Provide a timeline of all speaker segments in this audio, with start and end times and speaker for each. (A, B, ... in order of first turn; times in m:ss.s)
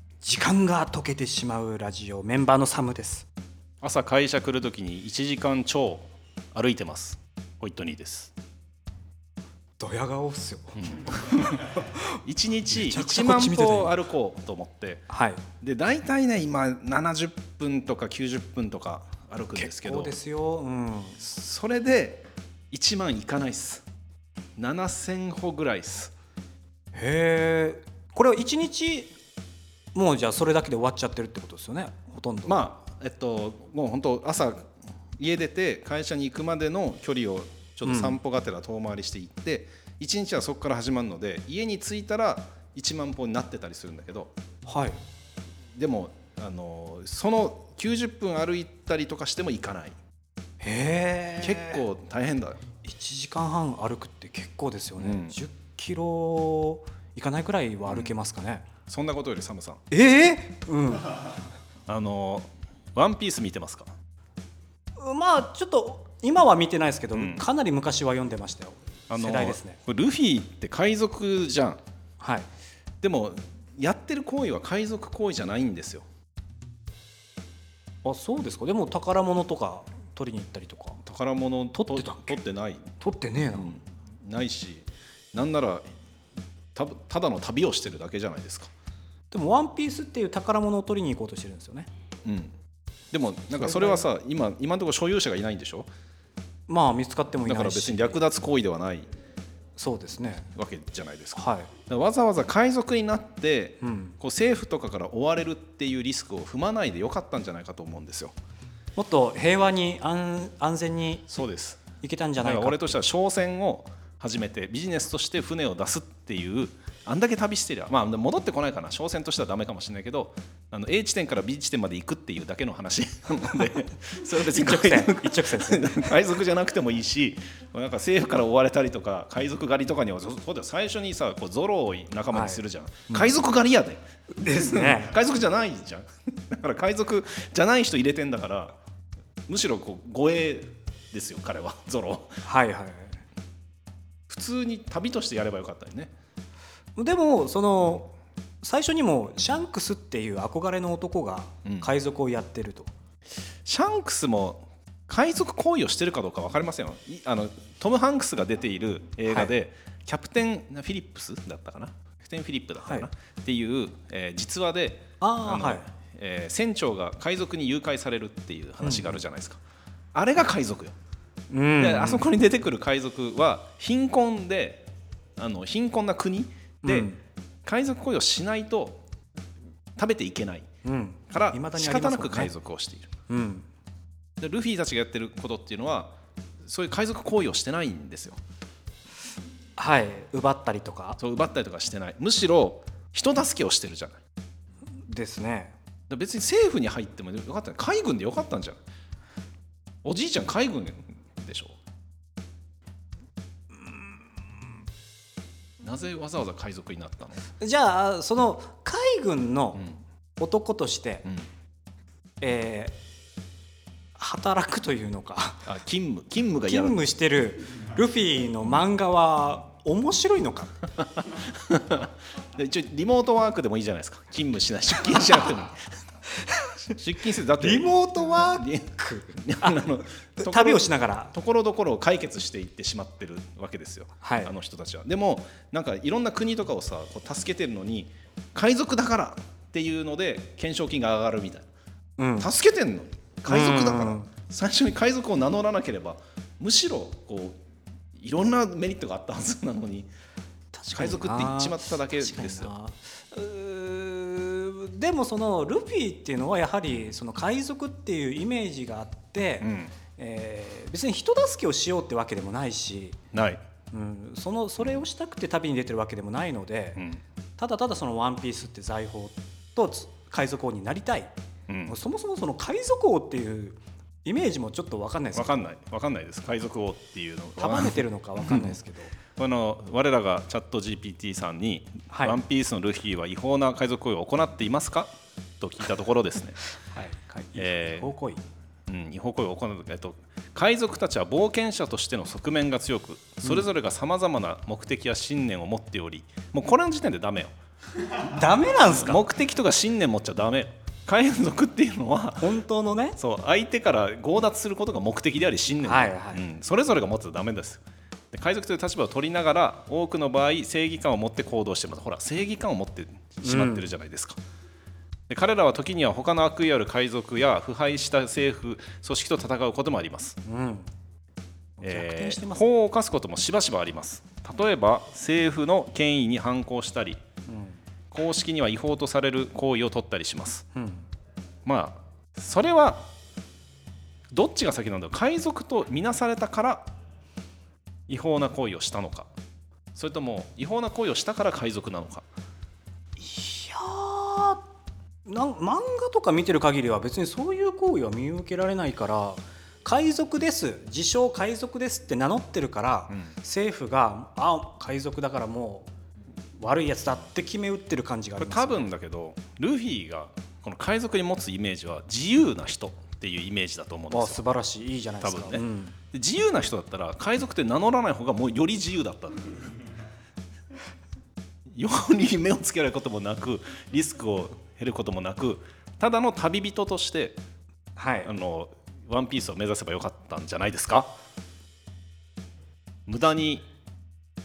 0:00.2-0:03.3 A
0:03.8-0:08.3 B
0:09.8-0:12.0 A
0:10.8-0:15.1 B
0:12.7-0:13.9 A
0:15.1-0:15.4 A
0:15.6-0:20.2 B
0:19.6-0:21.2 A
0:21.2-0:23.8 B
0:24.6-0:26.1 B
0:26.9-0:29.1 A
0:29.9-0:32.6 A
0:32.4-0:44.3 B
0:37.8-0:38.2 A
0:44.6-0:45.0 A
0:45.8-0:50.0 B
0:50.6-0:51.8 A
0:51.4-0:52.6 B
0:52.8-0:58.6 A
0:55.0-0:55.4 B
0:57.9-0:58.1 B
0:58.9-0:59.8 B
0:59.9-1:01.3 A
1:01.9-1:03.9 B
1:05.0-1:09.8 A
1:07.1-1:07.4 B
1:09.1-1:11.8 B
1:12.2-1:12.5 A
1:13.0-1:16.0 B
1:18.0-1:21.0 A
1:21.0-1:22.9 B
1:21.7-1:22.4 A
1:23.0-1:23.7 A
1:23.5-1:25.8 B
1:26.7-1:28.7 B
1:29.3-1:31.9 A
1:32.2-1:32.5 B
1:33.1-1:35.9 B
1:33.5-1:34.1 A
1:36.7-1:38.2 A
1:37.4-1:39.1 B
1:39.8-1:40.4 A
1:40.5-1:48.3 B
1:41.4-1:41.7 A
1:43.8-1:44.1 A
1:49.0-1:51.3 A
1:51.3-1:51.8 B
1:52.0-1:53.0 A
1:52.4-2:18.8 B
2:04.3-2:06.1 A
2:12.3-2:13.3 A
2:14.4-2:15.1 A
2:19.5-2:22.4 B
2:22.4-2:23.2 A
2:24.3-2:26.1 B
2:27.0-2:32.9 A
2:33.6-2:49.6 B
2:42.8-2:43.1 A
2:45.2-2:45.9 A
2:48.8-2:49.2 A
2:50.1-2:50.9 B
2:51.5-2:52.3 A
2:51.8-2:57.1 B
2:56.8-2:57.2 A
2:57.6-2:59.0 B
3:00.0-3:00.7 B
3:00.8-3:02.5 A
3:01.3-3:03.1 B
3:03.3-3:03.7 A
3:04.4-3:08.4 B
3:09.8-3:11.2 A
3:11.2-3:14.2 B
3:15.1-3:15.7 A
3:16.1-3:18.8 B
3:20.0-3:21.8 B
3:23.8-3:24.1 A
3:25.8-3:27.4 B
3:27.6-3:29.8 A
3:30.4-3:31.2 A
3:32.4-3:32.9 A
3:34.2-3:35.7 A
3:35.6-3:37.0 B
3:36.6-3:40.8 A
3:41.2-3:45.8 B
3:46.9-4:01.6 B
3:47.6-3:49.8 A
3:50.4-3:51.3 A
3:54.2-3:54.5 A
4:02.2-4:02.5 A
4:02.4-4:07.6 B
4:03.5-4:04.3 A
4:08.2-4:10.1 B
4:10.7-4:23.2 A
4:10.9-4:12.7 B
4:19.6-4:19.9 B
4:23.3-4:23.6 B
4:23.9-4:27.0 A
4:27.0-4:27.2 B
4:27.6-4:31.3 A
4:31.7-4:32.0 B
4:31.9-4:35.7 A
4:35.3-4:38.8 B
4:37.6-4:39.1 A
4:39.4-4:46.6 B
4:42.1-4:42.4 A
4:46.9-4:48.4 A
4:47.6-4:48.1 B
4:48.9-4:57.5 B
4:58.1-4:59.2 A
4:58.9-5:02.5 B
5:02.4-5:03.2 A
5:03.2-5:14.4 B
5:05.8-5:06.4 A
5:13.4-5:13.9 A
5:15.3-5:20.4 B
5:20.4-5:20.9 A
5:21.8-5:22.6 A
5:21.8-5:27.2 B
5:27.5-5:27.8 A
5:28.1-5:30.6 B
5:30.7-5:31.0 A
5:31.6-5:33.1 B
5:34.3-5:36.9 B
5:38.1-5:39.3 B
5:39.9-5:42.2 B
5:43.2-5:44.6 A
5:45.2-5:55.9 A
5:56.6-5:58.9 A
5:58.4-6:04.4 B
6:04.1-6:06.0 A
6:05.2-6:09.7 B
6:11.7-6:17.4 B
6:18.0-6:18.3 A
6:18.2-6:21.1 B
6:23.1-6:23.6 B